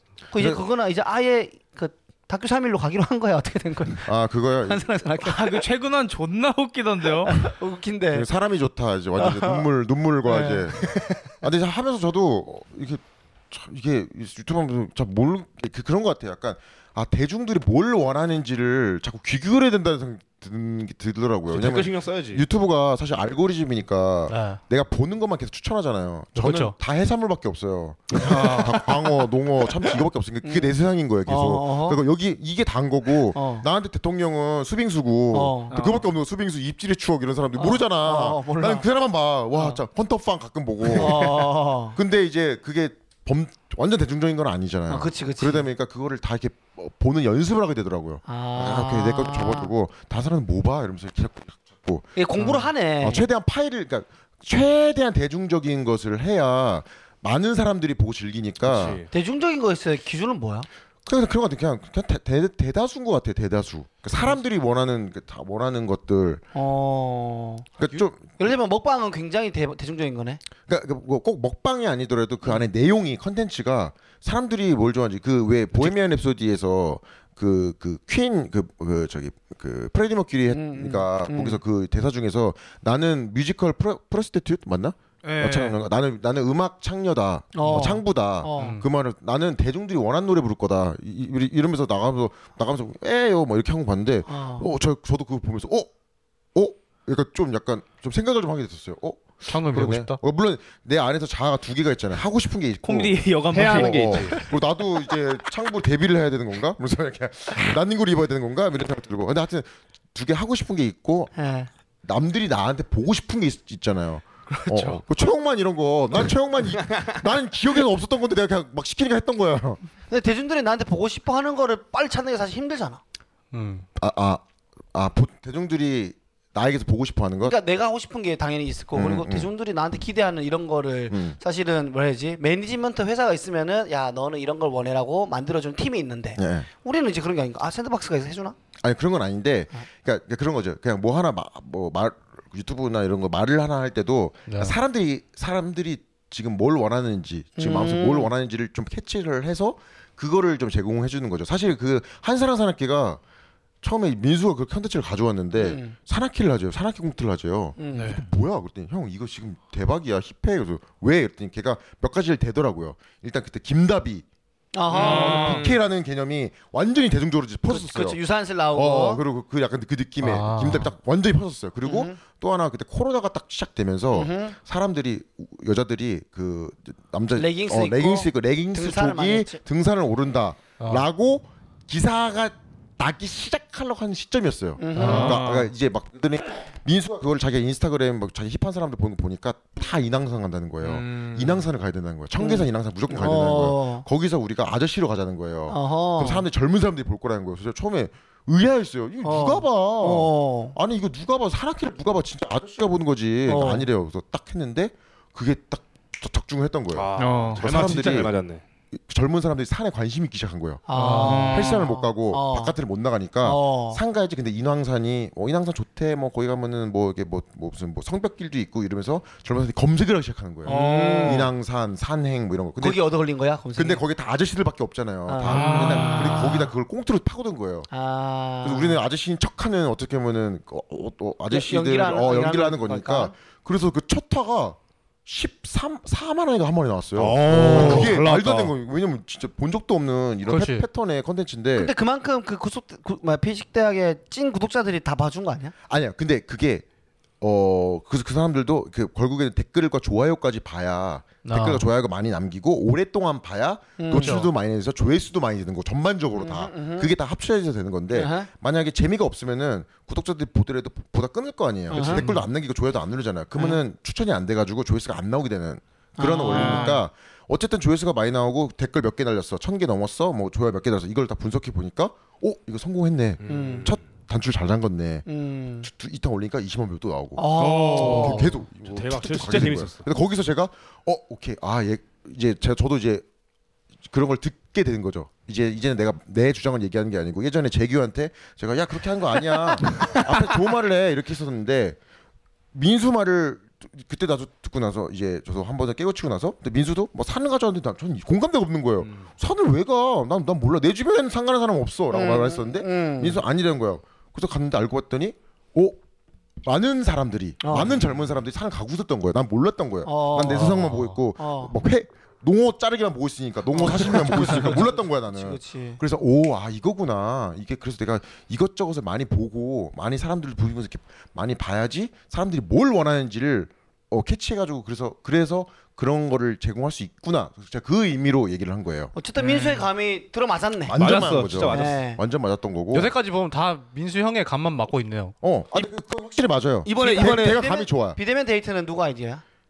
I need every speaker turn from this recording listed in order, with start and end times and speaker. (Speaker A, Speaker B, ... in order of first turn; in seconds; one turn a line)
Speaker A: 0.3-4.1
Speaker B: 0.3-0.6
Speaker B: 4.0-5.0
Speaker A: 4.6-5.6
Speaker C: 5.2-7.4
Speaker A: 7.2-8.3
Speaker B: 8.1-59.0
Speaker A: 9.2-9.6
Speaker A: 10.3-11.3
Speaker D: 21.5-22.4
Speaker E: 24.3-24.6
Speaker E: 26.4-26.7
Speaker A: 30.4-32.0
Speaker A: 33.3-33.6
Speaker A: 35.3-35.7
Speaker C: 35.7-36.0
Speaker A: 37.6-38.9
Speaker A: 40.8-42.0
Speaker A: 44.9-45.7
Speaker A: 48.2-49.7
Speaker A: 52.1-53.2
Speaker D: 58.6-59.1
Speaker A: 59.1-60.7
Speaker B: 61.0-66.4
Speaker A: 66.5-67.7
Speaker B: 67.8-68.4
Speaker A: 68.4-70.4
Speaker B: 70.7-95.9
Speaker A: 80.5-81.6
Speaker C: 85.2-85.8
Speaker A: 87.5-88.8
Speaker E: 88.6-88.8
Speaker A: 94.3-94.7
Speaker B: 96.5-111.3
Speaker E: 99.5-100.2
Speaker C: 102.8-104.5
Speaker D: 103.5-104.5
Speaker A: 111.3-111.7
Speaker B: 112.0-119.8
Speaker E: 114.5-115.0
Speaker A: 120.1-123.0
Speaker E: 123.5-123.8
Speaker B: 124.0-124.4
Speaker B: 124.9-127.6
Speaker A: 127.4-138.6
Speaker B: 128.9-129.5
Speaker B: 131.1-131.4
Speaker B: 136.3-136.7
Speaker B: 138.8-153.2
Speaker E: 144.4-144.7
Speaker A: 147.6-148.3
Speaker B: 153.8-164.2
Speaker A: 155.6-155.9
Speaker A: 157.8-158.2
Speaker A: 164.7-165.6
Speaker B: 164.9-168.2
Speaker C: 164.9-165.7
Speaker D: 165.0-165.8
Speaker A: 167.7-169.2
Speaker B: 168.7-208.3
Speaker E: 170.2-170.9
Speaker A: 171.8-172.2
Speaker A: 174.1-174.6
Speaker A: 177.3-179.6
Speaker E: 180.8-181.0
Speaker A: 184.8-185.4
Speaker E: 185.0-185.4
Speaker C: 185.1-185.7
Speaker C: 190.8-191.5
Speaker A: 192.4-194.1
Speaker A: 195.7-196.5
Speaker A: 199.2-200.8
Speaker A: 203.5-203.9
Speaker D: 206.9-208.6
Speaker C: 207.2-207.6
Speaker B: 208.9-210.8
Speaker A: 210.9-212.7
Speaker E: 210.9-211.8
Speaker C: 211.2-211.7
Speaker B: 211.5-223.0
Speaker A: 213.4-214.0
Speaker A: 220.6-221.5
Speaker C: 220.7-221.3
Speaker D: 220.8-221.1
Speaker A: 222.8-224.0
Speaker B: 223.8-227.9
Speaker A: 225.3-226.7
Speaker C: 225.4-226.1
Speaker E: 225.6-226.3
Speaker A: 227.9-229.0
Speaker B: 228.6-241.9
Speaker A: 231.5-233.3
Speaker D: 237.1-238.7
Speaker A: 237.5-238.2
Speaker E: 240.5-240.8
Speaker A: 241.7-245.7
Speaker B: 245.9-246.8
Speaker B: 247.4-275.2
Speaker E: 251.4-251.8
Speaker A: 254.0-254.4
Speaker E: 254.1-254.5
Speaker A: 256.4-257.1
Speaker A: 258.1-258.5
Speaker A: 261.9-262.3
Speaker D: 261.9-262.3
Speaker A: 266.2-267.0
Speaker C: 266.5-267.0
Speaker D: 273.4-273.9
Speaker A: 273.5-273.9
Speaker A: 275.2-275.9
Speaker B: 275.8-283.2
Speaker A: 277.4-278.6
Speaker C: 277.6-278.3
Speaker D: 278.8-280.1
Speaker B: 284.0-292.0
Speaker B: 292.7-306.0
Speaker A: 302.1-303.4
Speaker B: 306.6-329.1
Speaker A: 307.6-308.0
Speaker A: 310.0-311.7
Speaker E: 310.7-311.1
Speaker A: 313.7-316.0
Speaker A: 329.1-332.2
Speaker C: 329.4-329.9
Speaker B: 330.9-333.1
Speaker D: 331.0-332.0
Speaker E: 332.9-335.4
Speaker B: 335.4-338.2
Speaker D: 336.8-337.6
Speaker A: 337.0-339.4